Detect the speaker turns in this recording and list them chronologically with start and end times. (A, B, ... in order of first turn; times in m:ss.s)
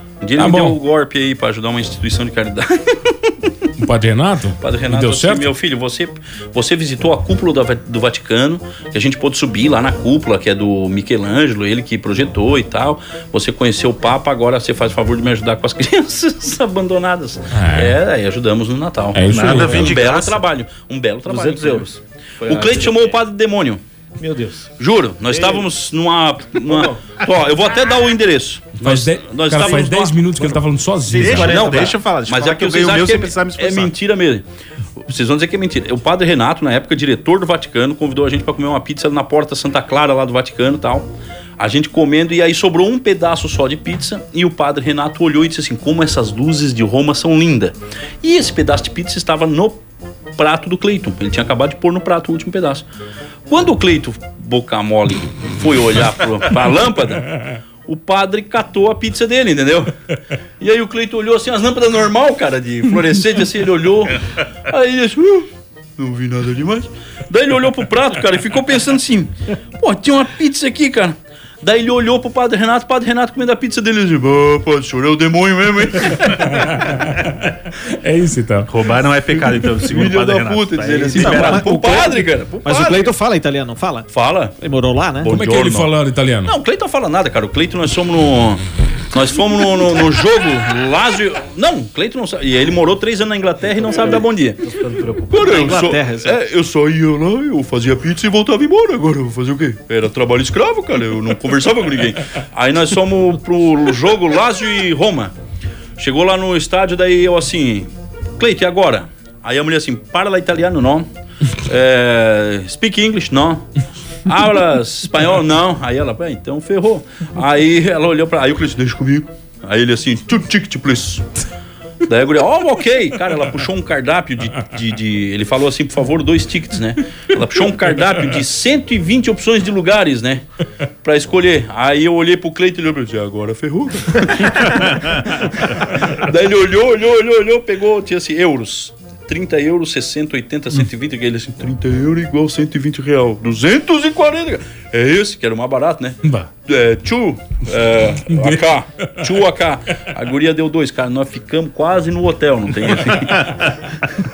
0:00.2-0:03.5 A
0:00.4-0:00.8 B
0:03.8-0:05.5 B
0:04.6-0:21.9 A
0:17.5-0:18.0 B
0:19.1-0:20.0 B
0:19.3-0:20.4 C
0:21.3-0:23.2 D
0:22.4-0:23.8 A
0:24.2-0:24.7 D
0:24.8-0:30.3 A
0:25.3-0:25.7 D
0:26.6-0:27.3 D
0:28.8-0:31.7 B
0:31.1-0:32.0 D
0:31.1-0:33.9 C
0:31.4-0:34.4 A
0:35.0-0:41.1 A
0:41.6-0:49.8 A
0:50.4-0:52.9 A
0:53.5-0:59.9 A
1:00.6-1:16.8 A
1:16.3-1:19.6 B
1:18.7-1:21.8 C
1:19.8-1:23.1 A
1:21.2-1:25.3 E
1:24.1-1:24.5 A
1:25.2-1:25.9 A
1:25.3-1:26.5 B
1:26.5-1:28.6 A
1:29.1-1:34.6 A
1:34.0-1:35.8 D
1:35.3-1:45.3 A
1:35.3-1:36.4 E
1:46.0-1:51.1 A
1:51.6-1:53.7 A
1:54.3-2:01.3 A
2:02.0-2:10.4 A
2:11.0-2:33.6 A
2:26.2-2:26.5 B
2:28.3-2:29.3 B